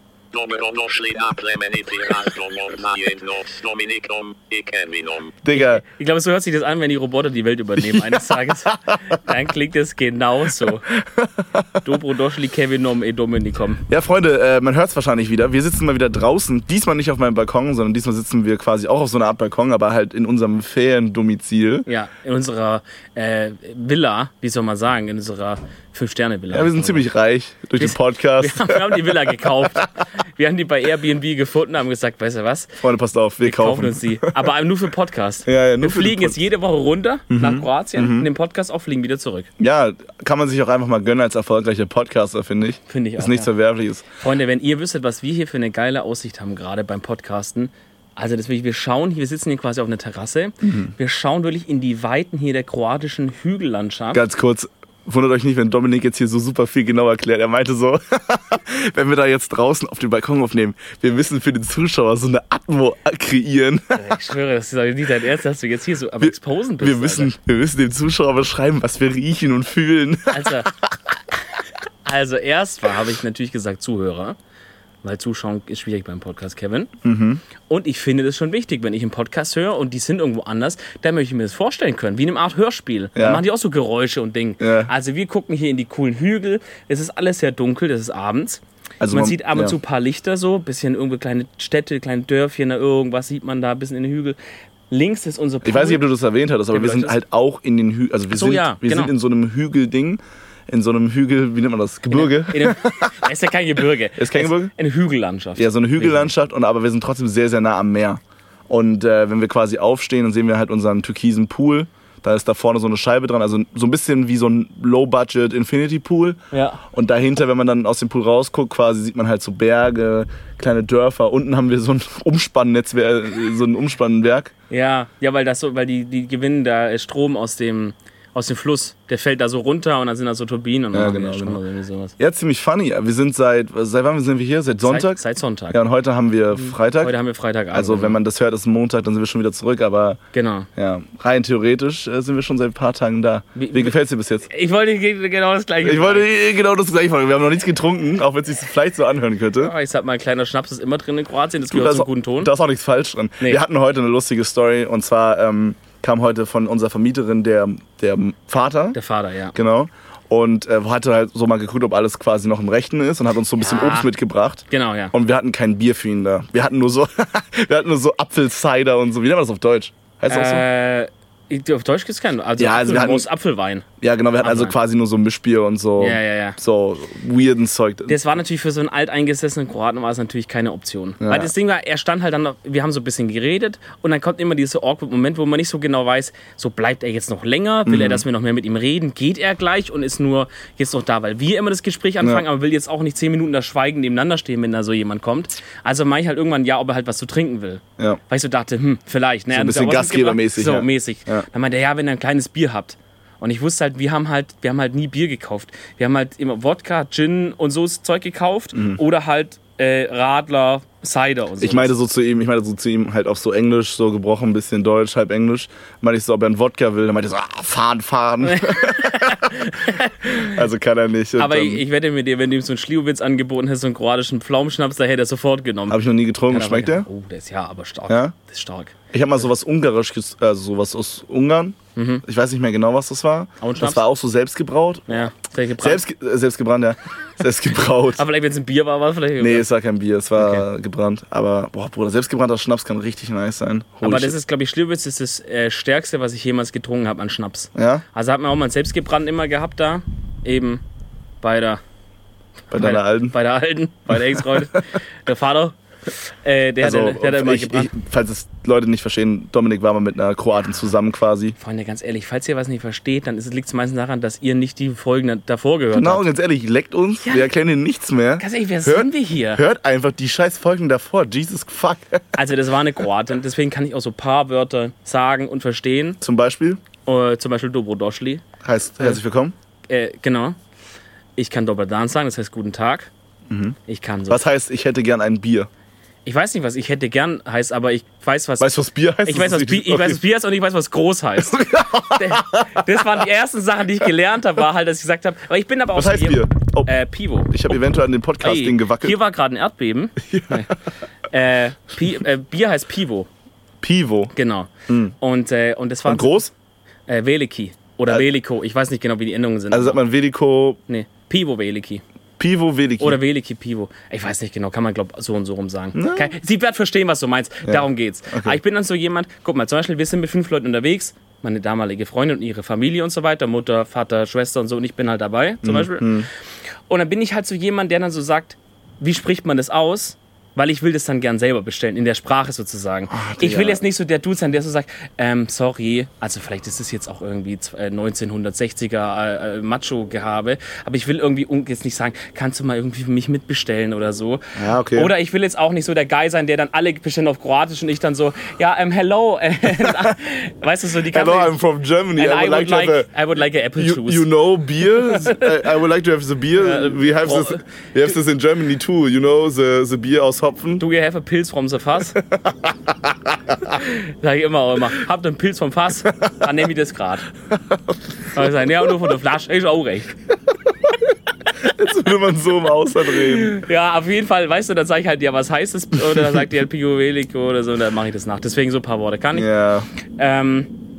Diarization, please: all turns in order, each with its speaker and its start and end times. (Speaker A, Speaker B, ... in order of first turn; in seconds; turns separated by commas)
Speaker A: 0.3-5.4, Speaker B: 5.4-5.8, Speaker C: 5.5-10.9, Speaker B: 7.8-8.9, Speaker B: 11.0-11.8, Speaker C: 11.8-13.8, Speaker B: 13.9-21.9, Speaker C: 21.9-27.1, Speaker B: 26.5-29.9, Speaker C: 27.8-32.8, Speaker B: 32.8-34.3, Speaker C: 33.4-39.5, Speaker B: 35.5-36.4, Speaker B: 37.3-38.3, Speaker B: 39.6-44.1, Speaker C: 42.9-43.5, Speaker C: 44.2-54.2, Speaker B: 50.6-50.9, Speaker B: 54.1-64.1, Speaker C: 63.9-67.3, Speaker B: 66.2-70.9, Speaker C: 70.3-70.7, Speaker C: 72.0-74.4, Speaker C: 75.0-76.9, Speaker B: 77.0-77.4, Speaker C: 77.7-94.4, Speaker B: 83.2-83.4, Speaker B: 84.6-84.9, Speaker B: 89.0-89.8, Speaker C: 94.9-96.0, Speaker B: 95.6-103.2, Speaker C: 96.7-97.2, Speaker C: 98.3-99.1, Speaker C: 102.1-106.3, Speaker B: 104.2-104.7, Speaker B: 105.5-124.5, Speaker C: 116.5-116.8, Speaker C: 124.7-132.2, Speaker B: 130.9-131.6, Speaker B: 132.2-135.2, Speaker C: 134.8-135.8, Speaker B: 135.7-137.1, Speaker C: 136.5-138.2, Speaker B: 137.7-140.2, Speaker C: 140.3-140.7, Speaker B: 140.8-144.5, Speaker C: 143.6-143.9, Speaker C: 144.4-146.3, Speaker B: 145.8-149.7, Speaker C: 149.6-152.5, Speaker B: 151.7-159.0, Speaker C: 158.9-159.5, Speaker B: 159.5-170.7, Speaker C: 163.6-164.1, Speaker C: 164.7-165.1, Speaker C: 170.3-173.8, Speaker B: 172.6-173.3, Speaker B: 174.0-178.2, Speaker C: 174.4-174.8, Speaker C: 176.0-176.6, Speaker C: 178.1-211.9, Speaker B: 181.2-181.5, Speaker B: 187.8-188.2, Speaker B: 199.5-201.5, Speaker B: 208.7-209.0, Speaker B: 211.6-219.6, Speaker C: 218.4-220.7, Speaker B: 220.4-221.8, Speaker C: 221.4-229.0, Speaker B: 225.9-227.1, Speaker B: 228.1-228.3, Speaker B: 229.1-235.3, Speaker C: 232.0-232.2, Speaker C: 233.6-234.0, Speaker C: 235.1-236.0, Speaker B: 235.8-238.2, Speaker C: 238.2-239.7, Speaker B: 239.4-244.3, Speaker C: 240.3-240.7, Speaker C: 244.0-250.8, Speaker B: 247.7-248.0, Speaker C: 251.4-251.8, Speaker B: 252.7-253.3, Speaker C: 252.7-257.9, Speaker B: 254.5-254.8, Speaker B: 256.8-261.6, Speaker C: 261.6-266.3, Speaker B: 265.9-272.3, Speaker C: 268.4-269.6, Speaker C: 272.4-276.2, Speaker B: 276.2-276.8, Speaker C: 277.1-278.4, Speaker B: 278.6-279.5, Speaker C: 279.9-280.6, Speaker C: 281.4-283.1, Speaker B: 283.5-283.8, Speaker C: 283.9-284.4, Speaker B: 284.3-285.7, Speaker C: 286.2-288.7, Speaker B: 288.6-290.2, Speaker C: 289.2-297.5, Speaker B: 291.4-292.9, Speaker B: 295.9-296.9, Speaker B: 297.5-299.2, Speaker C: 298.4-300.7, Speaker B: 300.2-300.7, Speaker C: 301.3-303.3, Speaker B: 303.8-304.3, Speaker C: 304.3-306.4, Speaker B: 304.9-305.1, Speaker B: 306.1-306.5, Speaker C: 307.1-310.0, Speaker B: 309.7-310.8, Speaker C: 310.9-312.0, Speaker B: 312.4-313.2, Speaker C: 313.0-326.2, Speaker B: 315.9-316.3, Speaker B: 317.6-318.6, Speaker B: 325.6-326.3, Speaker C: 326.9-351.6, Speaker B: 333.1-333.8, Speaker B: 344.6-345.1, Speaker B: 349.8-350.1, Speaker B: 351.1-353.1, Speaker C: 352.1-355.7, Speaker B: 353.8-360.8, Speaker C: 356.5-357.6, Speaker C: 360.8-362.1, Speaker B: 362.3-363.7, Speaker C: 363.6-367.2, Speaker C: 368.3-370.1, Speaker B: 371.6-373.6, Speaker C: 373.0-379.5, Speaker B: 379.3-379.9, Speaker C: 380.2-380.7